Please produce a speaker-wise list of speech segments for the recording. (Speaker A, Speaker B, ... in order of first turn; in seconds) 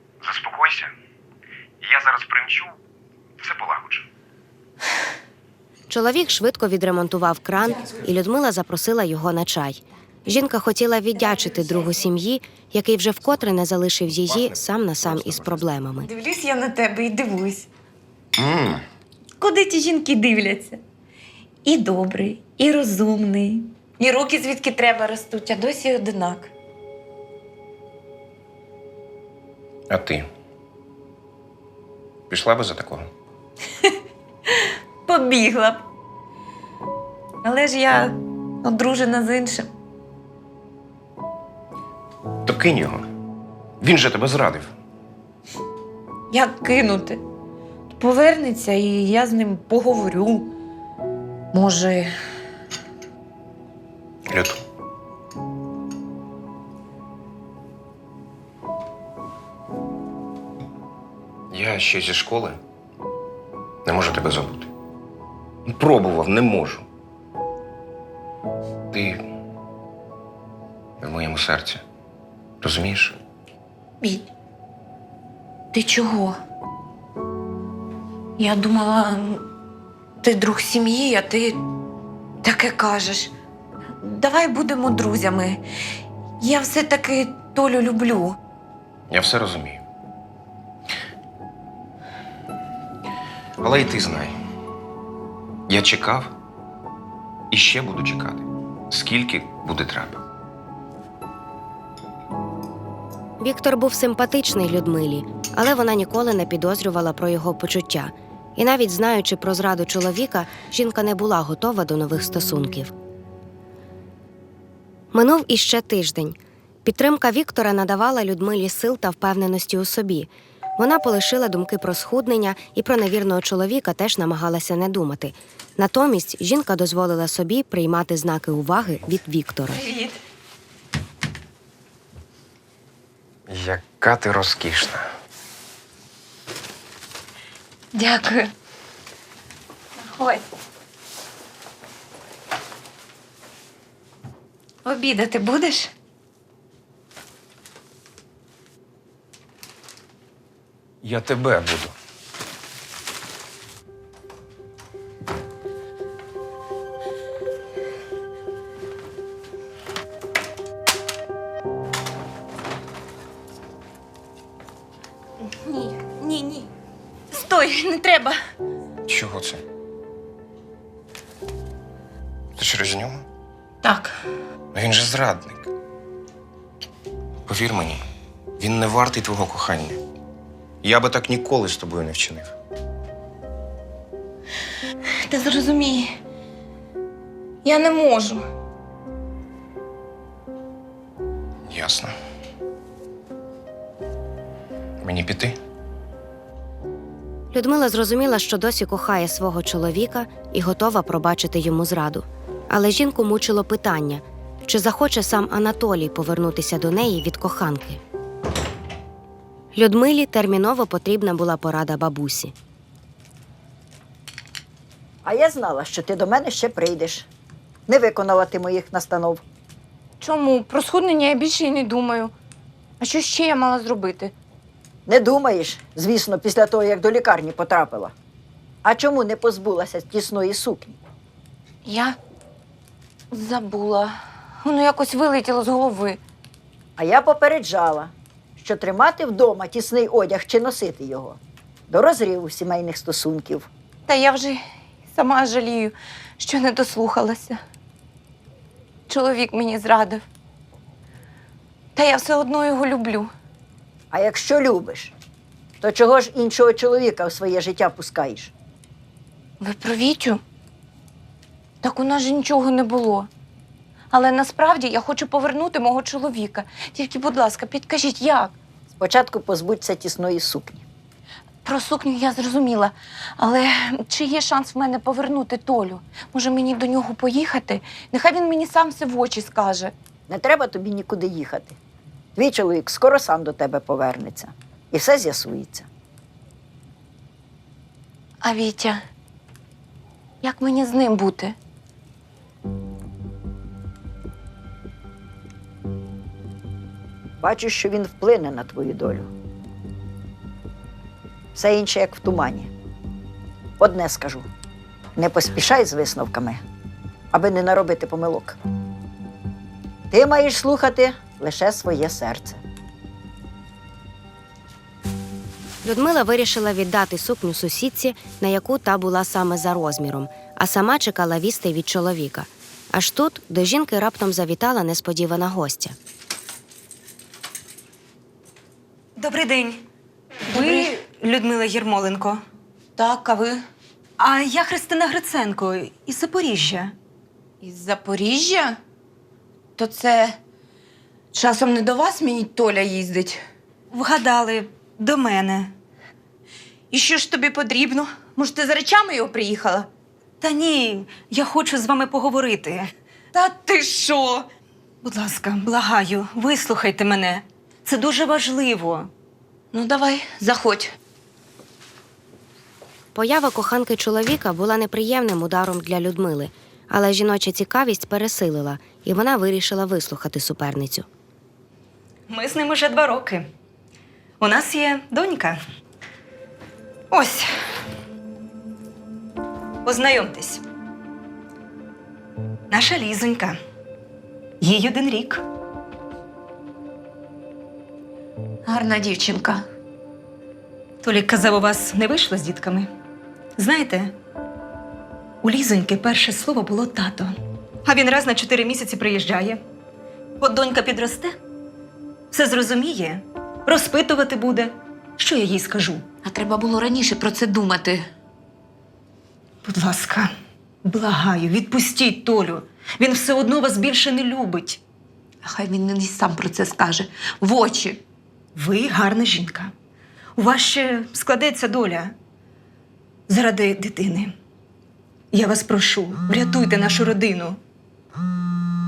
Speaker A: 0.2-0.9, 1.8-2.8, 3.4-4.1, 14.2-15.7, 18.4-18.8, 29.9-30.3, 32.3-33.1, 42.4-43.1, 43.8-44.7, 54.3-54.6, 61.5-62.6, 63.8-64.7, 65.6-66.8, 68.9-69.2, 71.0-71.8, 72.6-73.2, 89.1-89.8, 93.6-94.3, 95.7-96.3, 97.5-100.2, 133.5-135.1, 151.0-151.9, 169.1-169.6, 172.6-173.2, 174.7-175.7, 177.4-178.0, 178.6-180.0, 180.8-182.5, 191.7-192.1, 195.0-195.6
Speaker B: 5.9-16.1, 103.4-112.9, 115.1-129.9, 197.5-208.0, 209.7-212.5, 315.8-325.9, 363.1-371.1
Speaker C: 11.2-11.9, 16.0-17.7, 19.4-20.8, 21.6-26.5, 35.0-35.8, 37.4-39.7, 46.3-47.2, 47.9-50.5, 51.5-52.1, 74.0-74.3, 75.7-76.4, 78.4-79.4, 80.2-81.6, 82.4-83.3, 84.0-85.6, 86.4-88.3, 129.7-130.2, 137.9-138.5, 140.0-140.4, 144.8-145.9, 165.5-166.7, 167.3-168.4, 173.8-174.1, 185.2-186.2, 187.6-188.4, 220.2-222.3, 223.0-224.3, 231.8-232.2, 233.3-236.2, 244.1-244.6, 245.1-247.6, 249.1-250.2, 251.9-253.3, 259.6-260.4, 261.8-263.3, 264.1-268.5, 271.6-279.9, 288.4-289.0, 290.4-291.6, 330.5-330.9, 333.0-333.6, 337.6-338.8, 339.8-340.4, 341.3-343.4, 346.9-349.9, 353.3-354.5, 359.7-360.9, 388.7-389.6, 406.2-408.1, 415.4-418.0
Speaker D: 215.2-217.2, 217.9-219.4, 225.1-228.1, 228.8-231.0, 237.0-243.7, 254.1-255.1, 255.8-258.5, 268.9-270.8, 280.3-281.8, 282.4-285.9, 297.4-299.3, 301.5-302.7, 303.8-304.5, 305.1-306.6, 307.3-308.6, 310.1-312.6
Speaker E: 329.2-329.8, 330.5-332.4, 334.2-336.9, 343.9-345.7, 350.4-352.9, 355.0-359.1, 372.3-373.4, 374.4-375.6, 377.1-377.5, 379.8-380.6, 382.7-383.6, 384.6-385.4, 388.7-389.5, 391.0-392.9, 393.6-394.1, 395.4-399.6, 400.4-401.3, 402.3-406.1, 409.6-410.3, 410.8-414.8, 418.6-419.7, 420.4-422.1, 423.3-424.3, 425.3-427.6